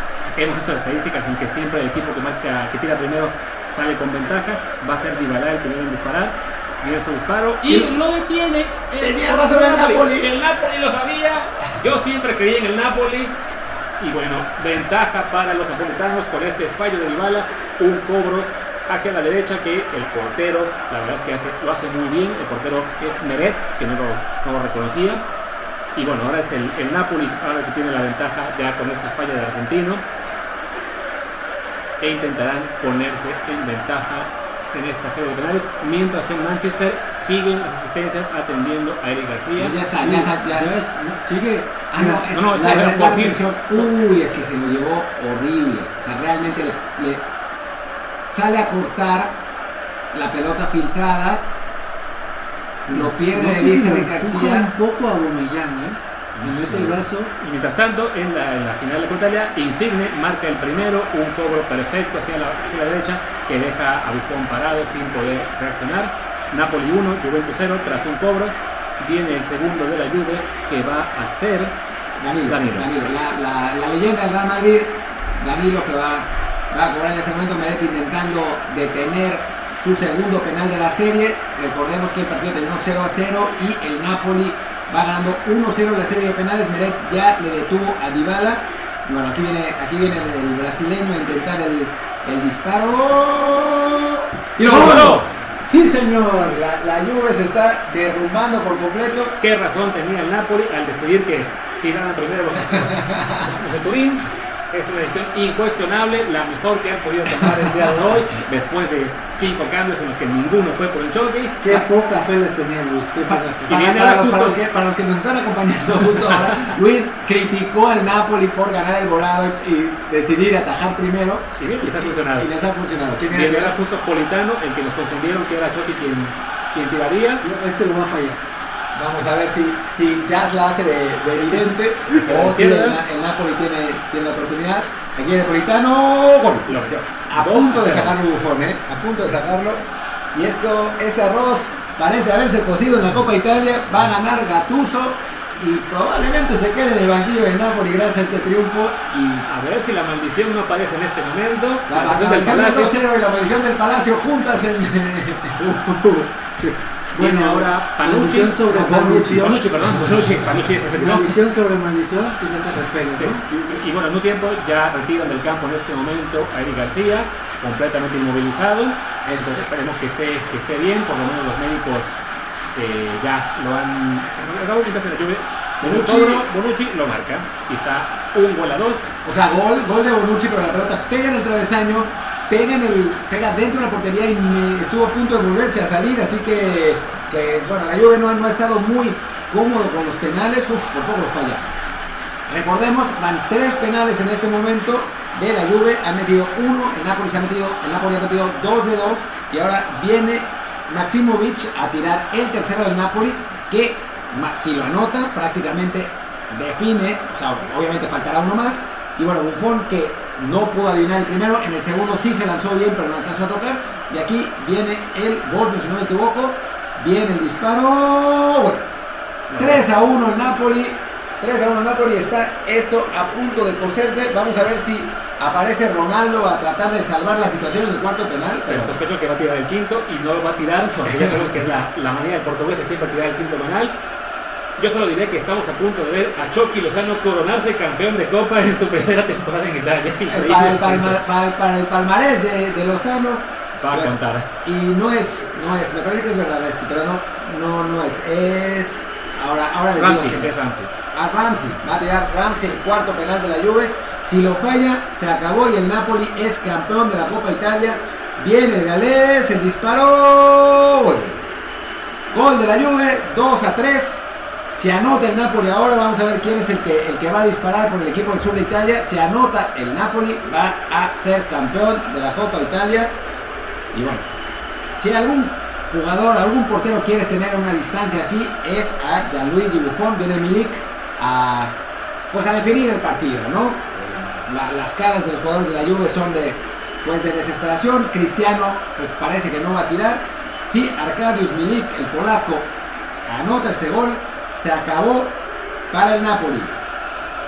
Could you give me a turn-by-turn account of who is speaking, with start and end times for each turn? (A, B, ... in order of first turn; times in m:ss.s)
0:00.4-0:13.4 A
0:09.0-0:10.3 B
0:14.0-0:25.2 A
0:26.0-0:30.0 A
0:32.0-0:39.8 A
0:39.6-0:40.7 B
0:39.9-0:43.0 C
0:41.9-0:47.2 B
0:42.3-0:43.9 A
0:48.3-0:49.4 B
0:50.1-0:51.5 B
0:52.9-0:57.3 C
0:52.9-0:54.7 B
0:56.4-1:11.8 A
1:12.2-1:35.2 B
1:12.5-1:12.9 A
1:34.6-1:35.3 A
1:34.6-1:36.6 C
1:36.5-1:39.4 B
1:39.4-1:51.9 A
1:42.7-1:43.5 B
1:51.6-1:53.9 C
1:53.3-1:54.6 A
1:53.7-2:03.8 B
1:56.3-1:56.6 A
2:01.6-2:02.5 A
2:03.3-2:07.4 A
2:07.4-2:08.4 C
2:09.0-2:29.5 B
2:12.2-2:13.0 A
2:16.7-2:18.2 A
2:29.5-2:33.0 A
2:31.9-2:35.6 B
2:35.6-2:39.6 C
2:37.2-2:41.4 A
2:38.7-2:40.4 B
2:40.9-2:43.4 C
2:43.2-2:59.1 A
2:43.5-2:43.8 B
2:49.2-2:49.6 B
2:55.8-2:56.5 B
2:59.2-3:11.6 B
3:12.5-3:38.9 B
3:39.5-3:39.8 A
3:39.6-3:49.0 B
3:48.7-3:53.9 A
3:51.1-3:51.5 B
3:54.8-4:01.2 A
4:00.3-4:21.5 B
4:03.8-4:04.5 A
4:10.0-4:10.9 A
4:22.3-4:33.1 B
4:33.9-4:34.3 B
4:34.9-4:41.8 B
4:42.3-4:52.7 B
4:53.3-4:55.4 B
4:55.9-4:56.8 B